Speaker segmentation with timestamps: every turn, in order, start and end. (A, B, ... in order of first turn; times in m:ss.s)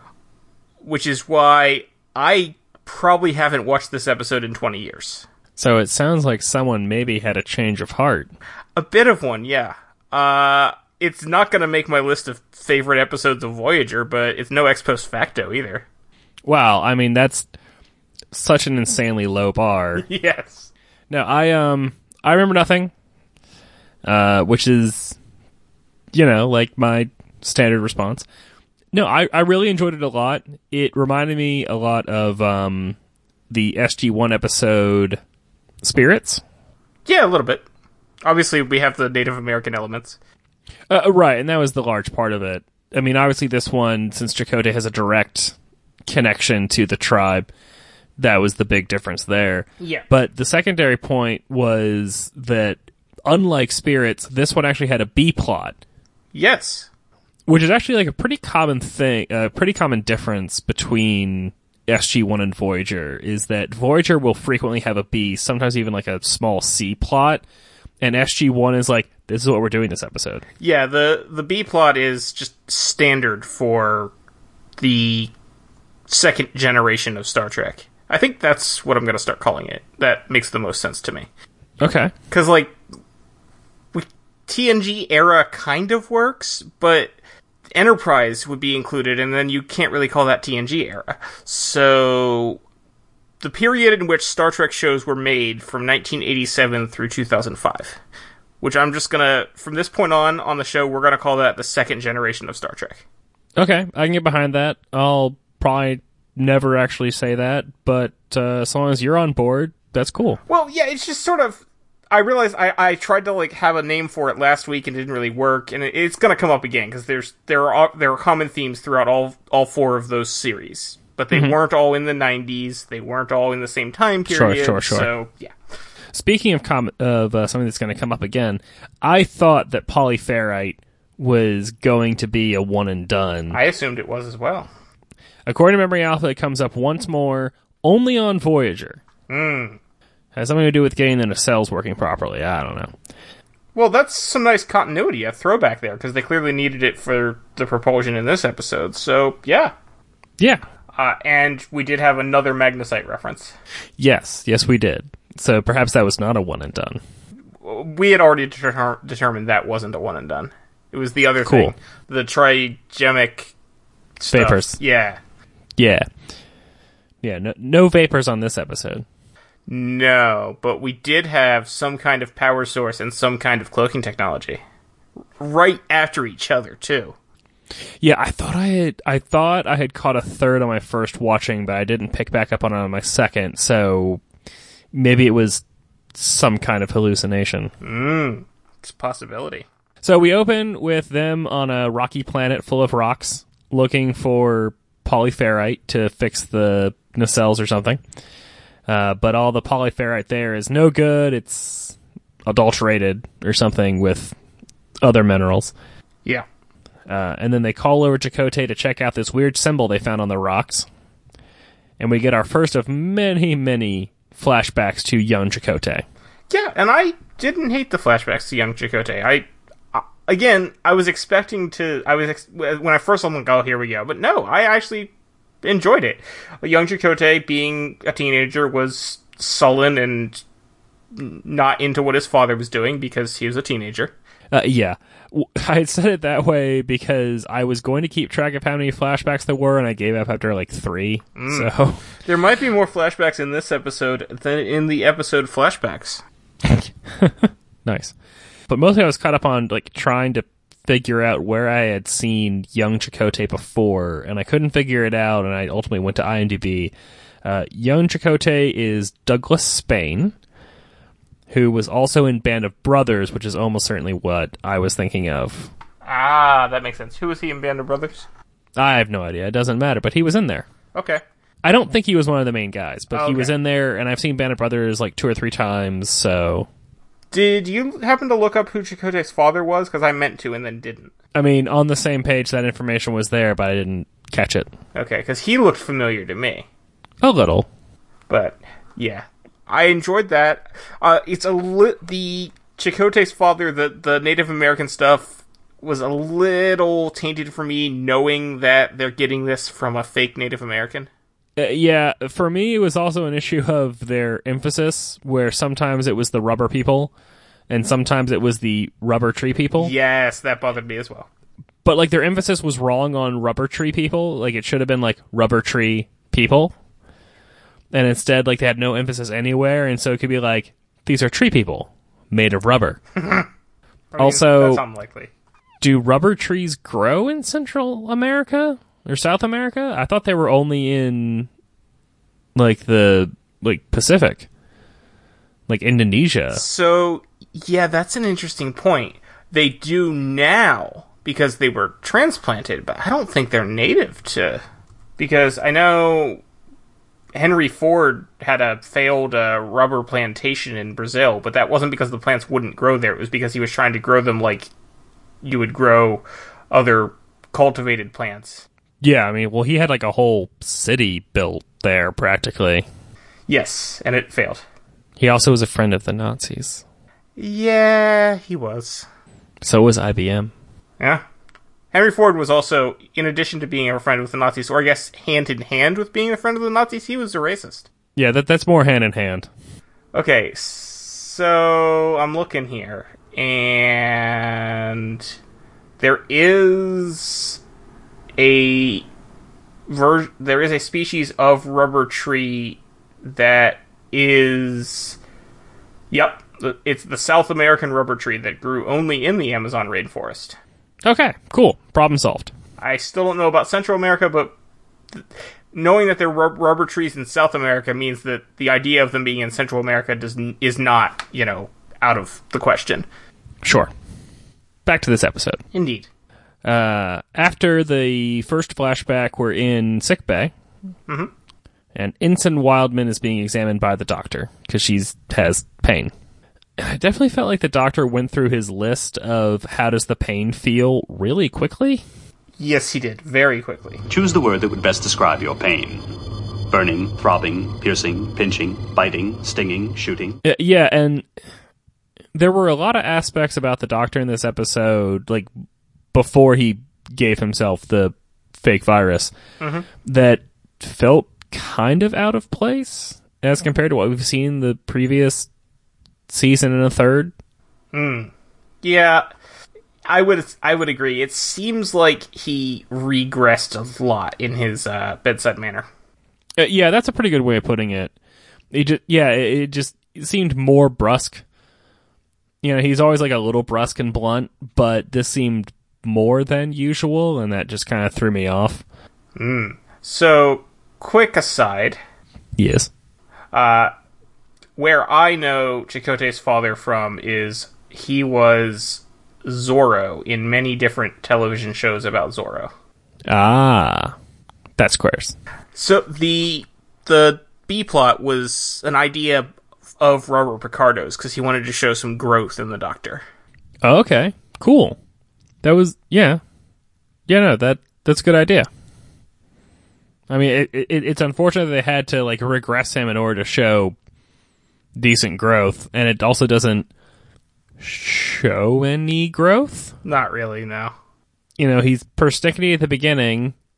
0:00.8-0:05.3 A
0:05.6-0:08.3 B
0:08.8-0:15.8 A
0:16.4-0:17.5 B
0:18.3-0:20.0 B
0:20.0-0:20.7 A
0:21.1-0:22.9 B
0:24.0-0:25.2 B
0:26.1-0:28.2 B
0:28.9-0:33.0 B
0:33.5-0:35.2 B
0:35.8-0:36.4 B
0:37.1-0:37.6 A
0:38.2-0:40.2 A
0:40.9-0:45.6 B
0:46.1-0:47.5 B
0:48.2-0:55.8 B
0:49.8-0:50.1 A
0:56.3-0:56.9 A
0:57.5-1:07.4 B
1:08.0-1:10.4 B
1:10.6-1:14.1 A
1:14.8-1:15.3 A
1:16.1-1:21.3 A
1:21.8-1:22.1 B
1:22.3-1:22.8 A
1:23.9-1:27.1 A
1:27.7-1:32.6 A
1:33.4-1:38.0 A
1:38.6-1:43.0 A
1:43.6-1:50.4 B
1:50.5-2:05.5 A
2:04.3-2:05.1 B
2:06.1-2:13.6 B
2:13.5-2:14.7 A
2:15.5-2:19.0 B
2:19.3-2:19.8 A
2:20.4-2:22.9 B
2:23.8-2:29.7 A
2:31.0-2:33.5 A
2:34.0-2:37.0 B
2:37.6-2:43.5 A
2:41.5-2:41.7 B
2:44.2-2:45.2 A
2:44.3-2:44.8 B
2:45.8-2:46.1 B
2:47.2-2:49.0 B
2:49.7-2:54.6 A
2:55.4-2:57.2 A
2:58.0-3:04.2 B
3:04.9-3:05.6 B
3:06.2-3:07.7 B
3:07.8-3:09.7 A
3:10.0-3:18.0 B
3:18.9-3:22.0 B
3:22.5-3:24.3 B
3:25.0-3:25.7 B
3:27.1-3:30.9 B
3:32.0-3:36.0 B
3:36.5-3:45.1 A
3:45.6-3:50.4 A
3:51.1-3:54.1 A
3:54.5-4:02.1 B
4:01.4-4:06.2 A
4:06.7-4:08.1 B
4:08.7-4:16.9 B
4:17.4-4:20.3 B
4:21.5-4:25.7 B
4:26.0-4:28.3 A
4:28.8-4:30.7 B
4:31.0-4:31.2 A
4:31.6-4:36.7 B
4:33.1-4:33.5 A
4:37.3-4:41.1 A
4:41.4-4:44.7 B
4:45.0-4:46.7 A
4:47.2-4:47.7 B
4:48.3-5:01.1 A
5:01.6-5:07.1 B
5:07.7-5:09.9 B
5:09.8-5:11.3 A
5:11.8-5:16.7 B
5:17.9-5:23.0 B
5:23.2-5:23.5 A
5:24.1-5:25.3 A
5:24.2-5:24.8 B
5:25.8-5:31.5 B
5:32.6-5:34.5 B
5:35.7-5:36.6 B
5:36.5-5:44.6 A
5:45.2-5:46.4 A
5:47.3-5:54.7 A
5:55.4-5:58.7 A
5:59.0-6:02.9 B
6:03.5-6:04.6 A
6:05.2-6:06.8 B
6:07.4-6:09.1 A
6:09.6-6:10.5 B
6:11.9-6:17.9 A
6:18.2-6:19.5 B
6:20.1-6:25.4 A
6:26.0-6:27.6 A
6:28.4-6:29.1 A
6:29.9-6:35.2 A
6:36.1-6:40.6 A
6:41.0-6:42.5 B
6:42.8-6:44.5 A
6:45.1-6:53.1 A
6:53.6-6:53.9 B
6:54.9-6:55.6 B
6:55.7-6:56.1 A
6:56.6-7:00.5 B
7:02.0-7:06.1 B
7:06.8-7:12.0 B
7:12.6-7:14.0 A
7:14.1-7:16.1 C
7:16.7-7:20.4 C
7:20.4-7:21.3 B
7:22.3-7:25.5 B
7:26.1-7:29.3 B
7:30.0-7:35.5 B
7:36.3-7:37.3 B
7:37.9-7:38.3 A
7:38.8-7:39.3 A
7:40.1-7:45.9 A
7:46.6-7:48.1 B
7:48.7-7:51.4 B
7:52.6-7:58.8 B
7:59.4-8:02.0 A
8:02.6-8:02.9 B
8:03.5-8:03.9 A
8:04.8-8:12.7 A
8:13.3-8:14.2 B
8:14.8-8:15.4 B
8:15.8-8:23.2 A
8:23.8-8:25.0 B
8:25.6-8:26.4 B
8:27.3-8:28.7 B
8:30.3-8:34.0 B
8:35.0-8:36.9 B
8:37.8-8:39.9 B
8:40.0-8:40.9 A
8:41.6-8:43.6 B